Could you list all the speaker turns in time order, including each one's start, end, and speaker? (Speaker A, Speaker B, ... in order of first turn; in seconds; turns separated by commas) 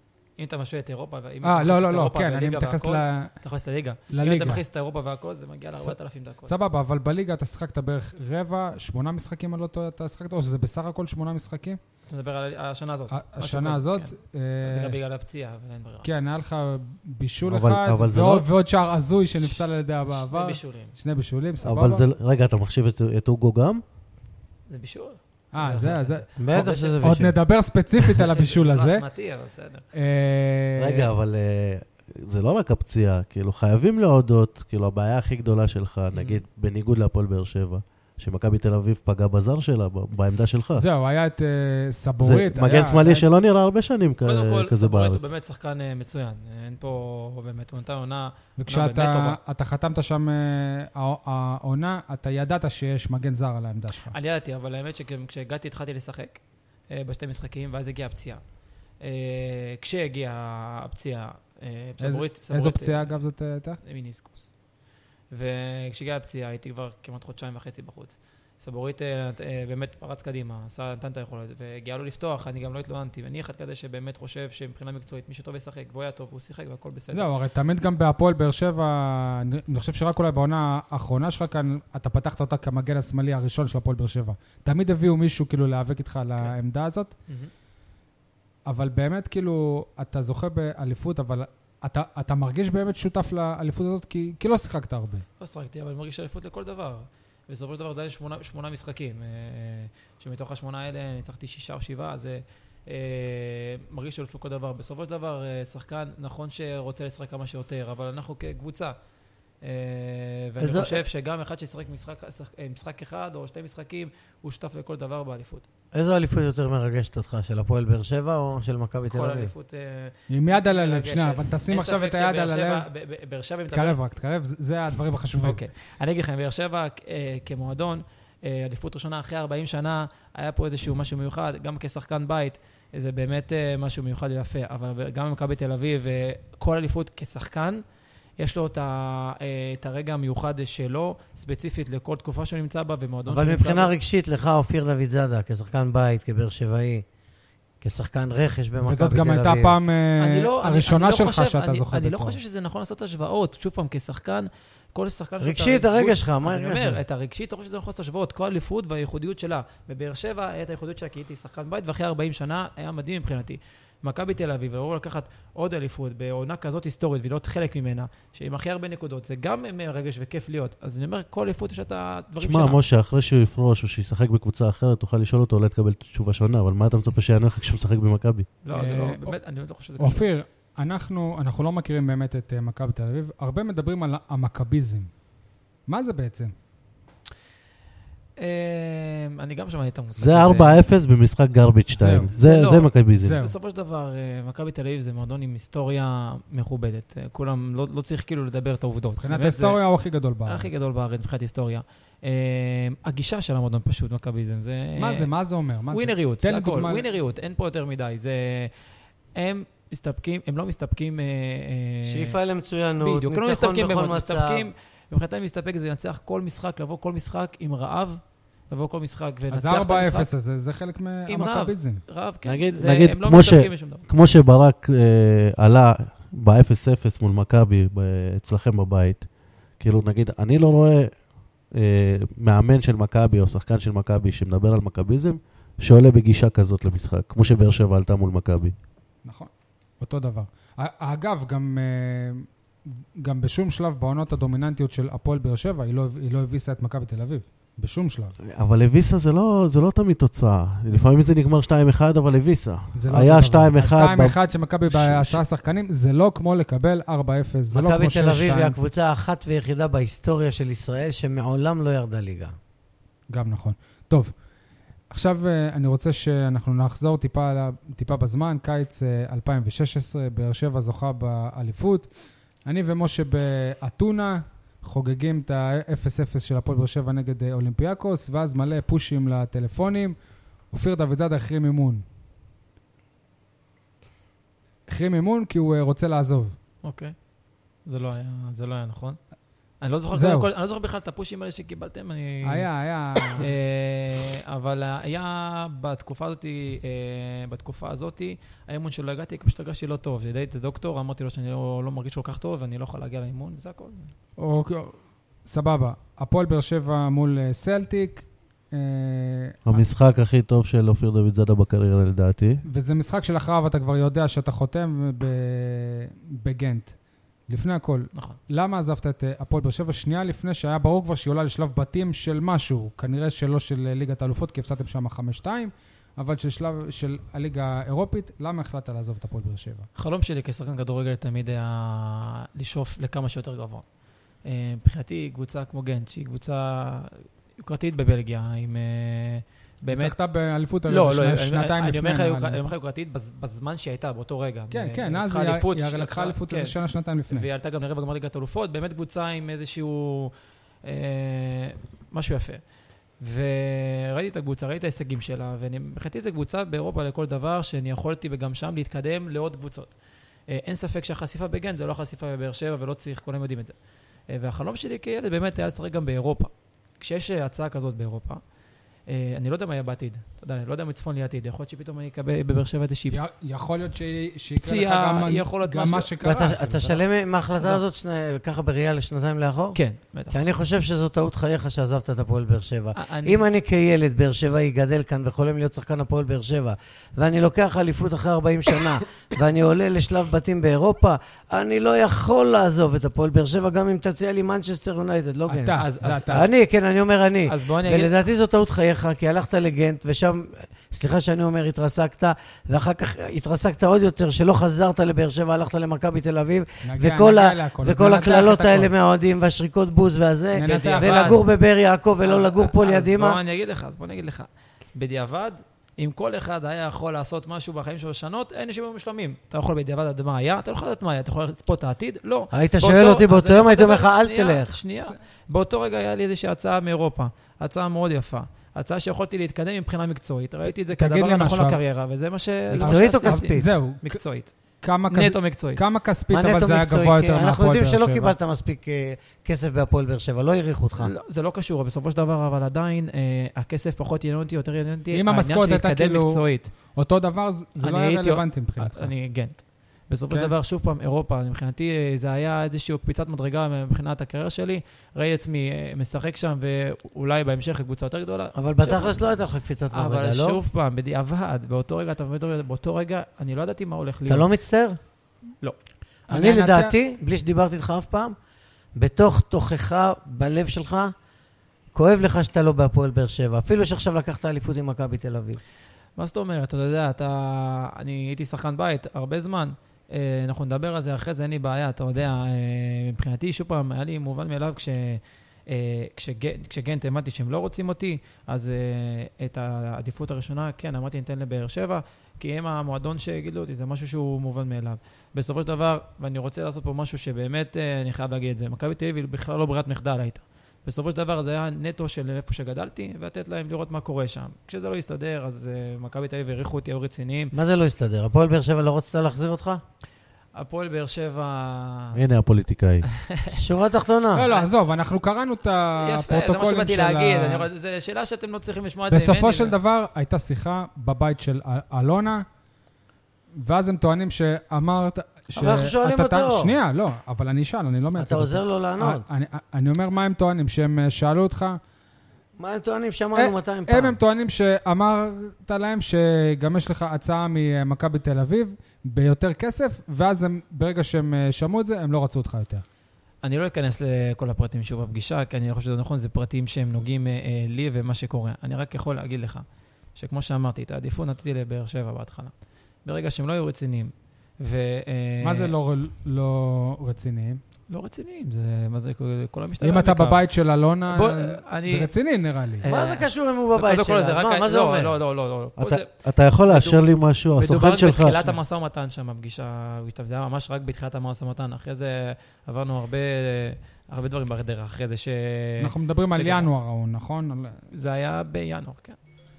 Speaker A: 0.4-6.5, Speaker B: 1.4-3.3, Speaker B: 4.1-4.6, Speaker B: 5.7-11.8, Speaker A: 12.1-16.1, Speaker B: 13.1-14.9, Speaker B: 16.0-22.0, Speaker C: 17.5-18.5, Speaker A: 19.4-21.0, Speaker C: 21.6-23.8, Speaker A: 24.7-27.1, Speaker B: 25.5-26.3, Speaker D: 26.4-27.3, Speaker B: 27.0-29.0, Speaker A: 28.0-29.9, Speaker B: 29.9-31.1, Speaker C: 30.8-40.8, Speaker A: 36.1-36.4, Speaker B: 40.8-43.3, Speaker C: 42.2-45.3, Speaker A: 44.2-49.4, Speaker B: 48.6-54.1, Speaker A: 54.1-58.4, Speaker A: 59.0-63.1, Speaker B: 62.0-63.8, Speaker A: 63.8-64.5, Speaker A: 65.3-77.3, Speaker B: 77.1-87.1, Speaker B: 88.7-95.2, Speaker A: 95.4-108.9, Speaker A: 109.6-115.6, Speaker D: 110.6-111.0, Speaker D: 115.9-119.5, Speaker A: 119.1-124.0, Speaker B: 120.3-122.8, Speaker B: 123.7-125.6, Speaker A: 125.3-137.8, Speaker A: 138.4-143.9, Speaker D: 143.3-147.0, Speaker D: 147.8-149.7, Speaker B: 148.8-152.4, Speaker A: 150.2-172.8, Speaker D: 155.4-157.0, Speaker C: 172.4-178.5, Speaker A: 178.6-180.2, Speaker B: 178.7-179.3, Speaker B: 180.0-185.1, Speaker B: 185.9-186.5, Speaker A: 188.4-190.8, Speaker C: 190.2-193.4, Speaker B: 191.9-192.3, Speaker A: 192.4-199.8, Speaker B: 193.2-193.5, Speaker B: 199.2-200.7, Speaker A: 200.5-205.3, Speaker B: 205.0-207.0, Speaker A: 205.9-208.7, Speaker A: 209.3-212.4, Speaker D: 212.1-214.7, Speaker A: 213.0-220.3, Speaker B: 219.5-222.0, Speaker A: 221.3-224.1, Speaker C: 222.4-229.2, Speaker C: 229.8-231.1, Speaker C: 231.7-238.7, Speaker B: 239.2-248.3, Speaker C: 248.4-255.4, Speaker B: 252.9-258.8, Speaker D: 257.7-262.5, Speaker B: 263.3-264.3, Speaker B: 265.1-272.1, Speaker B: 272.6-280.1, Speaker B: 280.7-282.0, Speaker B: 284.9-286.6, Speaker A: 286.8-287.1, Speaker A: 287.9-289.2, Speaker A: 289.8-292.7, Speaker B: 290.1-290.5, Speaker B: 292.4-293.5, Speaker A: 293.3-304.1, Speaker B: 304.4-309.8, Speaker C: 309.6-312.6, Speaker B: 312.6-316.9, Speaker B: 317.5-329.9, Speaker A: 329.9-333.8, Speaker A: 334.4-340.1, Speaker B: 339.9-342.6, Speaker A: 340.9-346.7, Speaker B: 344.7-347.5, Speaker A: 347.3-350.3, Speaker A: 350.8-352.6, Speaker A: 353.2-359.9, Speaker A: 360.5-363.7, Speaker A: 364.3-368.4, Speaker A: 369.1-373.2, Speaker B: 373.1-377.0, Speaker A: 374.6-376.1, Speaker D: 376.2-413.4, Speaker A: 379.7-380.4, Speaker A: 382.9-383.4, Speaker B: 395.5-396.5, Speaker A: 395.8-396.5, Speaker A: 397.4-398.1, Speaker B: 406.8-408.9, Speaker B: 410.5-411.4, Speaker A: 410.6-411.4, Speaker A: 412.2-434.5, Speaker D: 422.5-424.8, Speaker B: 430.9-431.8, Speaker D: 432.7-433.6, Speaker B: 432.8-434.2, Speaker B: 434.8-438.3, Speaker A: 435.1-435.8, Speaker D: 436.3-441.1, Speaker A: 441.0-446.7, Speaker B: 445.1-446.4, Speaker B: 446.9-449.1, Speaker A: 447.8-459.2, Speaker D: 458.6-460.6, Speaker A: 459.9-464.5, Speaker D: 464.3-465.0, Speaker B: 466.3-466.9, Speaker D: 466.3-468.3, Speaker D: 468.9-471.1, Speaker D: 471.9-475.6, Speaker A: 476.2-507.5, Speaker D: 507.5-509.8, Speaker A: 510.5-512.2, Speaker C: 512.1-513.0, Speaker A: 513.1-513.6, Speaker D: 513.5-514.5, Speaker B: 514.3-517.7, Speaker A: 514.4-514.7, Speaker A: 516.0-519.8, Speaker B: 519.1-522.4, Speaker B: 523.6-531.8, Speaker D: 525.5-526.7, Speaker D: 528.2-529.2, Speaker D: 532.6-534.2, Speaker B: 533.3-542.8, Speaker A: 543.4-549.6, Speaker A: 550.1-552.5, Speaker A: 553.0-555.7, Speaker B: 555.4-557.6, Speaker A: 557.9-560.5, Speaker B: 559.8-562.9, Speaker A: 561.1-562.1, Speaker A: 562.8-566.1, Speaker D: 562.9-565.2, Speaker C: 565.8-568.5, Speaker A: 566.6-576.7, Speaker B: 575.8-577.8, Speaker A: 577.9-579.2